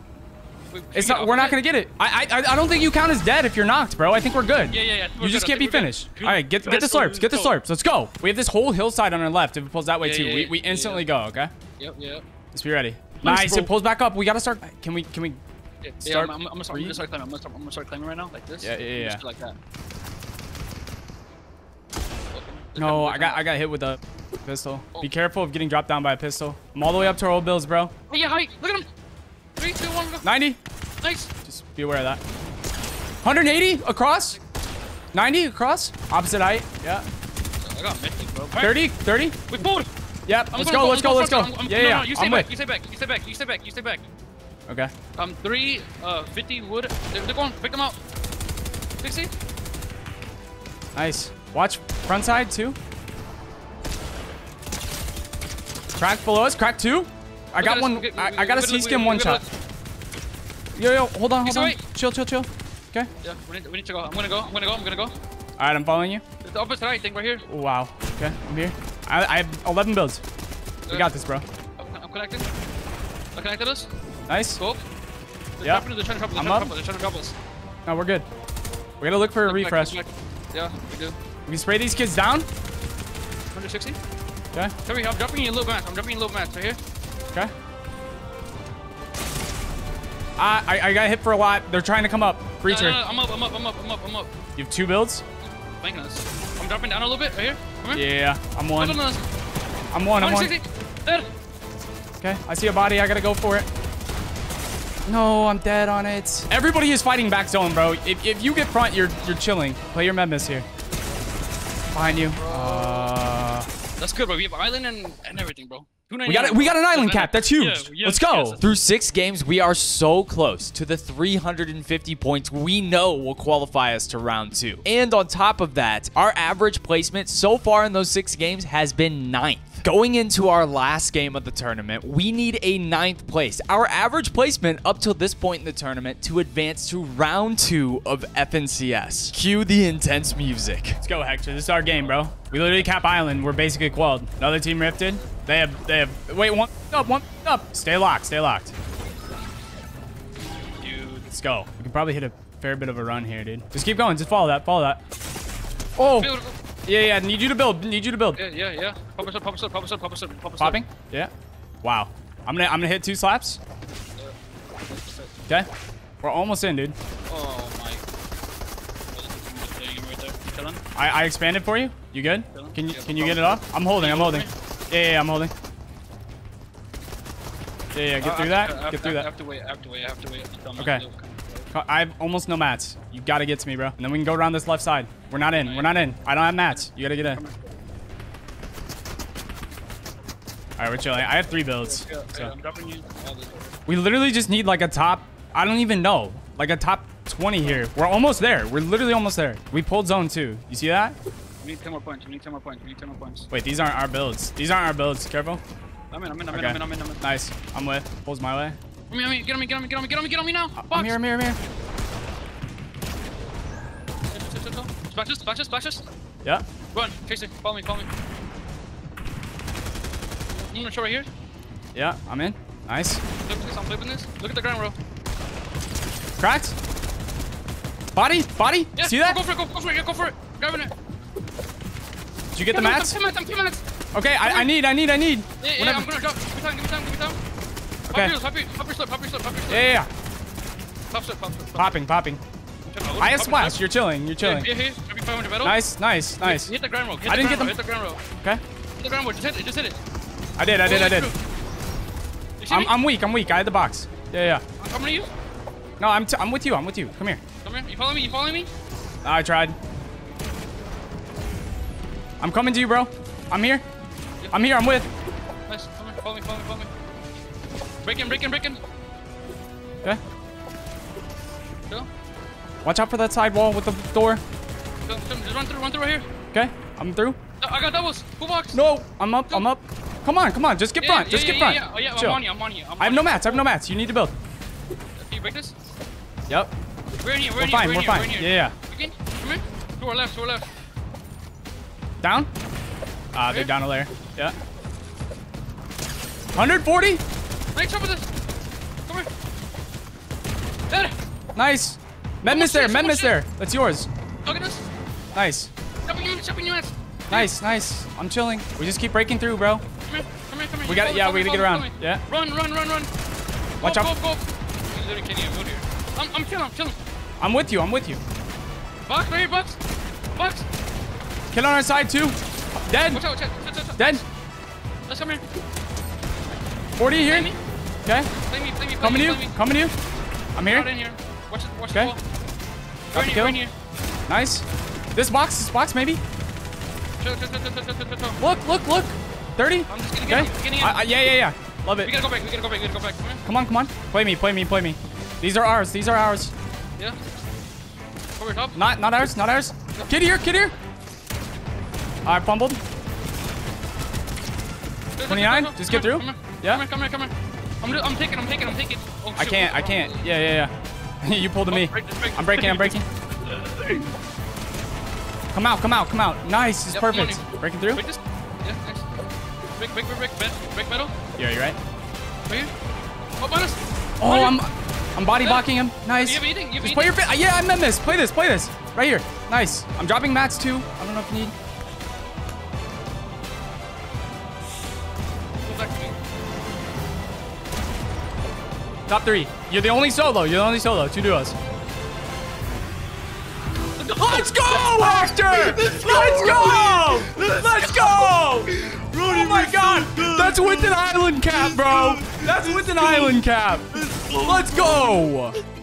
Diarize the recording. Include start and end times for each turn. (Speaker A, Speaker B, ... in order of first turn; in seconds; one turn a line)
Speaker A: 0.7-1.6
Speaker B: 0.9-11.5
Speaker A: 4.7-7.6
Speaker A: 10.0-11.1
Speaker A: 11.8-12.2
Speaker B: 12.5-15.4
Speaker A: 13.2-13.7
Speaker A: 15.8-19.6
Speaker B: 16.0-17.0
Speaker B: 18.6-19.2
Speaker A: 22.3-23.5
Speaker B: 22.8-27.9
Speaker A: 28.1-28.9
Speaker A: 29.6-30.3
Speaker B: 30.2-30.6
Speaker A: 31.0-31.3
Speaker B: 31.5-32.2
Speaker B: 33.2-34.4
Speaker B: 35.1-37.1
Speaker A: 37.6-38.8
Speaker B: 38.6-39.6
Speaker A: 39.5-39.9
Speaker B: 40.3-42.5
Speaker A: 40.5-44.0
Speaker A: 45.2-48.0
Speaker A: 49.0-49.3
Speaker B: 51.0-52.8
Speaker B: 56.0-59.4
Speaker A: 57.6-59.5
Speaker B: 60.8-63.1
Speaker A: 61.4-61.8
Speaker A: 63.2-65.1
Speaker B: 65.6-66.2
Speaker A: 66.4-67.5
Speaker B: 67.5-70.2
Speaker A: 70.9-71.2
Speaker B: 70.9-71.5
Speaker A: 71.8-72.5
Speaker A: 73.3-73.9
Speaker B: 74.3-74.6
Speaker A: 74.5-74.8
Speaker A: 75.6-77.3
Speaker B: 75.6-76.7
Speaker B: 77.9-78.3
Speaker B: 79.0-80.0
Speaker A: 79.5-81.2
Speaker B: 81.5-82.5
Speaker A: 83.5-84.0
Speaker A: 84.9-86.8
Speaker B: 90.4-93.0
Speaker A: 92.6-94.3
Speaker B: 94.6-95.2
Speaker A: 95.8-98.0
Speaker B: 97.9-99.0
Speaker A: 98.8-99.2
Speaker B: 99.9-100.5
Speaker A: 100.2-101.3
Speaker B: 102.2-103.7
Speaker B: 105.1-110.7
Speaker B: 111.9-113.7
Speaker A: 112.1-113.2
Speaker A: 114.0-118.6
Speaker B: 116.3-118.6
Speaker C: 118.6-141.0
Speaker B: 141.0-148.7
Speaker A: 150.8-151.3
Speaker B: 151.3-155.0
Speaker B: 156.0-156.3
Speaker A: 156.2-156.6
Speaker B: 156.9-158.4
Speaker A: 158.4-160.8
Speaker B: 160.6-161.3
Speaker B: 161.8-163.6
Speaker A: 164.2-165.4
Speaker B: 166.2-167.0
Speaker A: 167.3-168.0
Speaker A: 169.1-170.8
Speaker B: 171.0-175.5
Speaker A: 172.5-174.5
Speaker B: 177.9-179.3
Speaker A: 178.2-181.7
Speaker B: 180.8-181.1
Speaker B: 181.7-187.4
Speaker A: 185.6-186.0
Speaker A: 186.7-187.7
Speaker B: 190.8-192.5
Speaker A: 191.8-193.8
Speaker B: 193.9-201.2
Speaker A: 197.6-197.9
Speaker A: 201.6-203.5
Speaker B: 203.5-205.6
Speaker A: 206.1-207.2
Speaker B: 206.5-208.8
Speaker A: 209.1-211.2
Speaker B: 210.8-211.6
Speaker A: 214.3-216.1
Speaker A: 216.9-218.1
Speaker A: 220.5-221.3
Speaker B: 221.9-223.2
Speaker A: 223.4-225.0
Speaker B: 226.4-226.8
Speaker B: 228.1-229.4
Speaker A: 228.9-230.9
Speaker B: 232.6-233.2
Speaker A: 232.7-233.8
Speaker B: 234.1-236.1
Speaker A: 234.4-234.7
Speaker A: 235.6-237.4
Speaker B: 238.1-238.4
Speaker A: 238.1-239.9
Speaker B: 239.7-240.1
Speaker A: 241.1-242.0
Speaker B: 241.8-242.4
Speaker A: 242.9-243.8
Speaker B: 243.2-244.7
Speaker A: 244.4-245.8
Speaker B: 245.6-247.8
Speaker A: 246.4-248.2
Speaker A: 249.0-250.0
Speaker B: 250.6-251.3
Speaker A: 250.8-251.4
Speaker A: 252.6-252.9
Speaker B: 252.7-254.6
Speaker A: 254.8-255.3
Speaker B: 256.0-257.4
Speaker A: 257.6-258.7
Speaker B: 259.2-259.8
Speaker B: 262.4-263.8
Speaker A: 264.4-264.7
Speaker B: 264.5-265.1
Speaker A: 265.7-266.9
Speaker A: 268.0-268.8
Speaker B: 272.8-274.4
Speaker A: 275.1-276.2
Speaker B: 276.5-277.4
Speaker A: 277.6-278.8
Speaker B: 278.7-282.4
Speaker A: 281.0-283.7
Speaker B: 283.0-284.3
Speaker A: 285.2-285.7
Speaker A: 287.2-290.7
Speaker B: 287.6-288.8
Speaker B: 292.2-292.5
Speaker B: 293.3-294.6
Speaker B: 296.6-297.2
Speaker A: 297.7-298.3
Speaker B: 301.6-304.1
Speaker A: 302.4-303.4
Speaker A: 304.4-304.8
Speaker B: 305.3-305.7
Speaker A: 306.1-307.5
Speaker B: 307.3-309.8
Speaker A: 310.1-313.1
Speaker B: 310.9-312.2
Speaker A: 313.8-317.0
Speaker B: 313.8-314.1
Speaker B: 317.4-318.2
Speaker A: 319.1-319.8
Speaker A: 320.4-320.7
Speaker B: 321.5-323.2
Speaker A: 323.1-324.2
Speaker B: 324.0-324.2
Speaker A: 325.1-325.4
Speaker B: 327.0-327.5
Speaker A: 327.2-327.6
Speaker A: 328.4-329.6
Speaker B: 329.0-329.9
Speaker B: 330.6-330.9
Speaker A: 330.6-332.2
Speaker B: 333.1-333.6
Speaker A: 333.1-333.7
Speaker B: 334.3-336.2
Speaker A: 337.2-338.4
Speaker B: 338.4-342.1
Speaker A: 339.9-341.0
Speaker A: 342.0-343.4
Speaker B: 343.4-346.5
Speaker A: 348.4-348.9
Speaker B: 348.8-350.8
Speaker B: 352.2-352.8
Speaker A: 355.2-360.3
Speaker B: 355.3-356.8
Speaker B: 359.4-363.1
Speaker A: 361.7-362.9
Speaker A: 363.6-364.1
Speaker B: 365.5-368.0
Speaker A: 366.9-369.1
Speaker A: 369.8-371.1
Speaker B: 371.4-371.8
Speaker A: 373.4-374.6
Speaker B: 374.2-381.6
Speaker A: 375.4-377.2
Speaker A: 385.6-386.2
Speaker B: 389.1-391.6
Speaker A: 394.0-396.9
Speaker B: 394.2-405.6